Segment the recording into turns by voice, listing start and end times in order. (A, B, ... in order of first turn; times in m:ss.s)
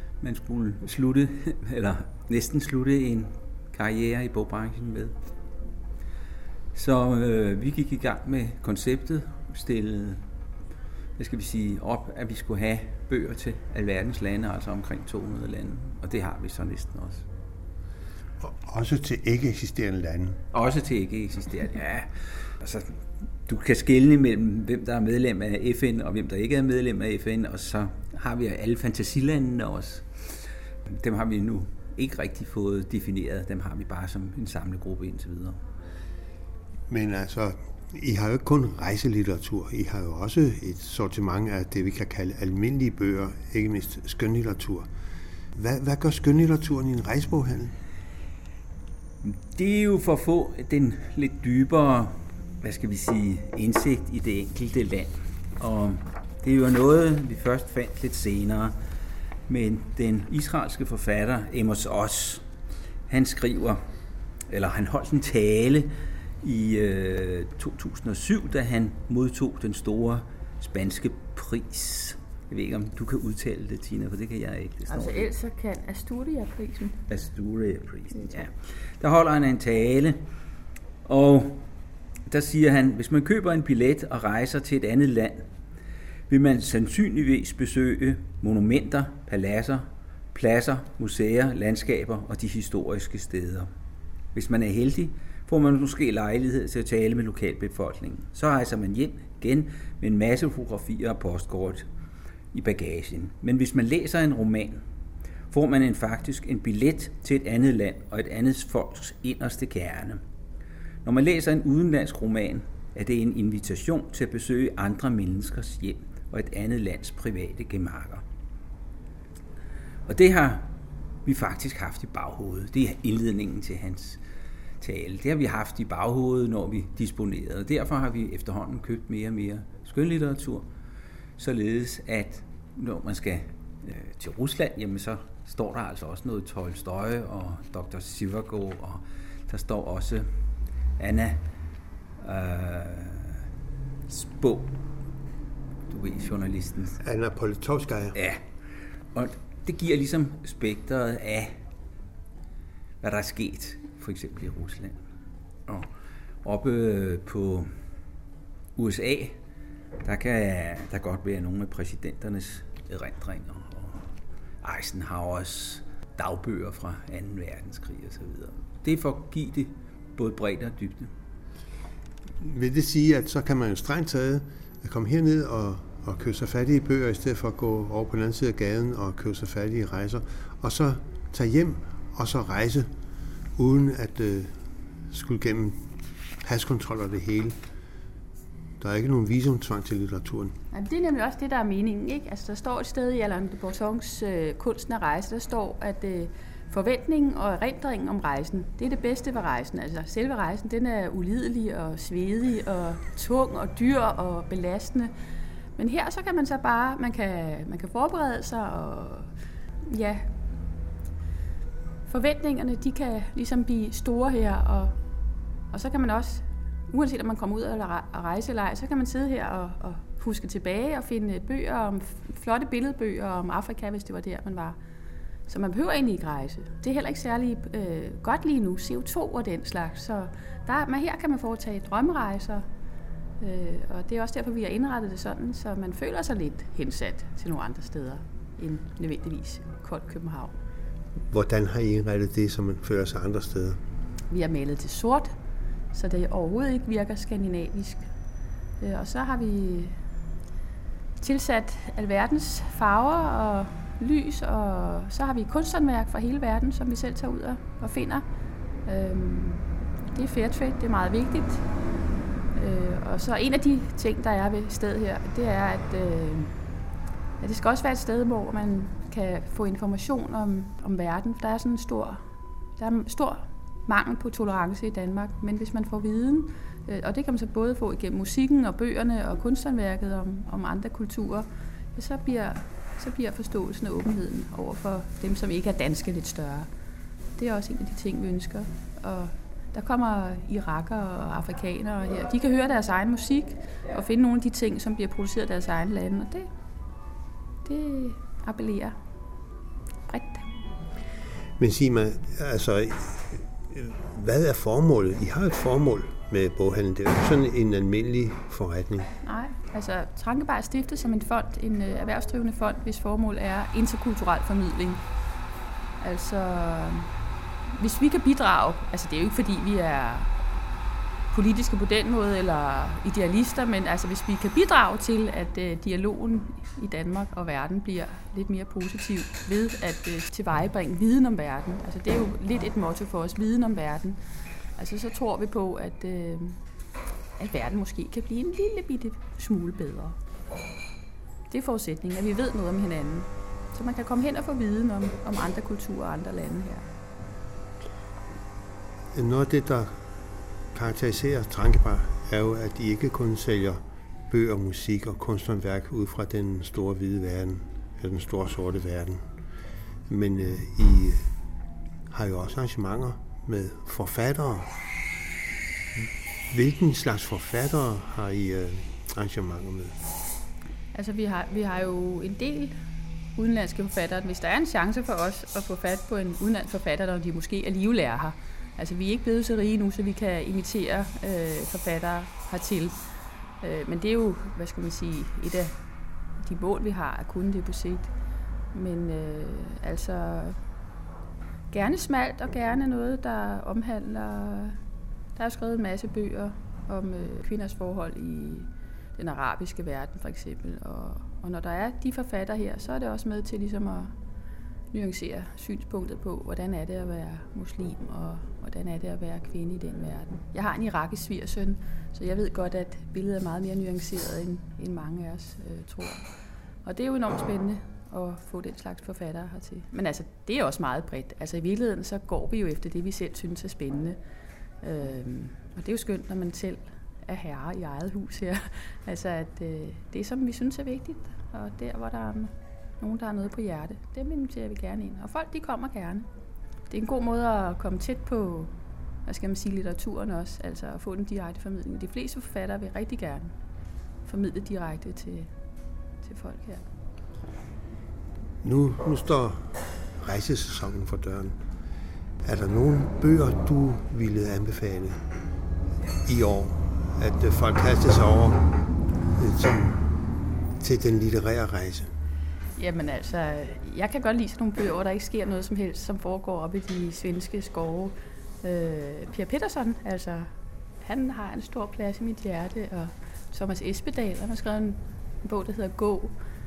0:00.2-0:05.2 A
0:06.7-0:10.3 A
0:11.2-0:17.3 A
0:18.4-0:20.4 B
0:20.5-0:35.6 A
0:36.9-0:44.9 B
0:45.5-0:47.8 B
0:49.2-0:58.7 A
0:59.5-1:02.4 A
1:03.1-1:03.8 A
1:04.5-1:15.3 A
1:14.9-1:17.0 C
1:17.1-1:20.3 A
1:21.0-1:21.7 A
1:22.3-1:25.5 A
1:26.3-1:33.7 A
1:34.3-1:41.9 A
1:42.5-1:44.8 A
1:45.5-1:50.2 A
1:51.0-1:58.2 A
2:00.0-2:04.2 A
2:04.8-2:10.7 A
2:11.4-2:20.4 A
2:21.0-2:21.5 A
2:22.2-2:23.4 A
2:24.1-2:24.8 A
2:25.9-2:27.0 A
2:27.0-2:28.2 B
2:28.1-2:28.4 A
2:29.1-2:31.6 A
2:33.0-2:35.0 A
2:36.4-2:37.8 A
2:38.8-2:39.4 A
2:40.0-2:44.0 A
2:44.6-2:51.1 A
2:52.4-3:02.9 B
3:03.6-3:04.5 B
3:05.1-3:05.8 B
3:06.4-3:07.6 B
3:08.8-3:10.6 B
3:10.7-3:25.1 C
3:25.8-3:29.3 C
3:29.8-3:30.3 C
3:32.1-3:34.9 C
3:35.7-3:44.8 C
3:45.5-3:52.6 C
3:53.4-4:00.6 C
4:01.3-4:03.8 B
4:04.3-4:05.3 C
4:05.9-4:08.1 C
4:08.8-4:10.0 C
4:11.2-4:18.2 C
4:18.8-4:21.6 C
4:22.5-4:26.6 C
4:27.4-4:32.2 C
4:32.8-4:46.7 C
4:47.4-4:56.5 C
4:57.6-4:59.0 C
5:00.1-5:00.5 C
5:01.6-5:09.1 B
5:09.2-5:15.0 C
5:16.0-5:17.1 C
5:17.7-5:20.4 C
5:21.3-5:34.2 C
5:34.8-5:36.6 C
5:37.4-5:40.2 C
5:41.5-5:46.8 C
5:49.1-5:50.0 B
5:50.7-5:59.2 B
6:00.1-6:01.3 B
6:02.1-6:04.7 B
6:06.0-6:10.0 B
6:10.9-6:12.8 C
6:13.4-6:23.0 C
6:23.6-6:25.7 C
6:26.4-6:28.1 C
6:28.7-6:30.6 C
6:31.7-6:34.8 C
6:35.4-6:44.1 C
6:44.9-6:56.3 C
6:56.8-7:04.2 C
7:04.8-7:16.3 C
7:16.9-7:18.7 C
7:19.2-7:23.5 C
7:24.2-7:25.5 C
7:26.2-7:26.8 C
7:28.6-7:31.6 B
7:32.4-7:35.2 B
7:36.2-7:38.7 B
7:39.3-7:40.1 B
7:40.8-7:42.1 B
7:42.8-7:50.5 C
7:51.0-7:56.4 C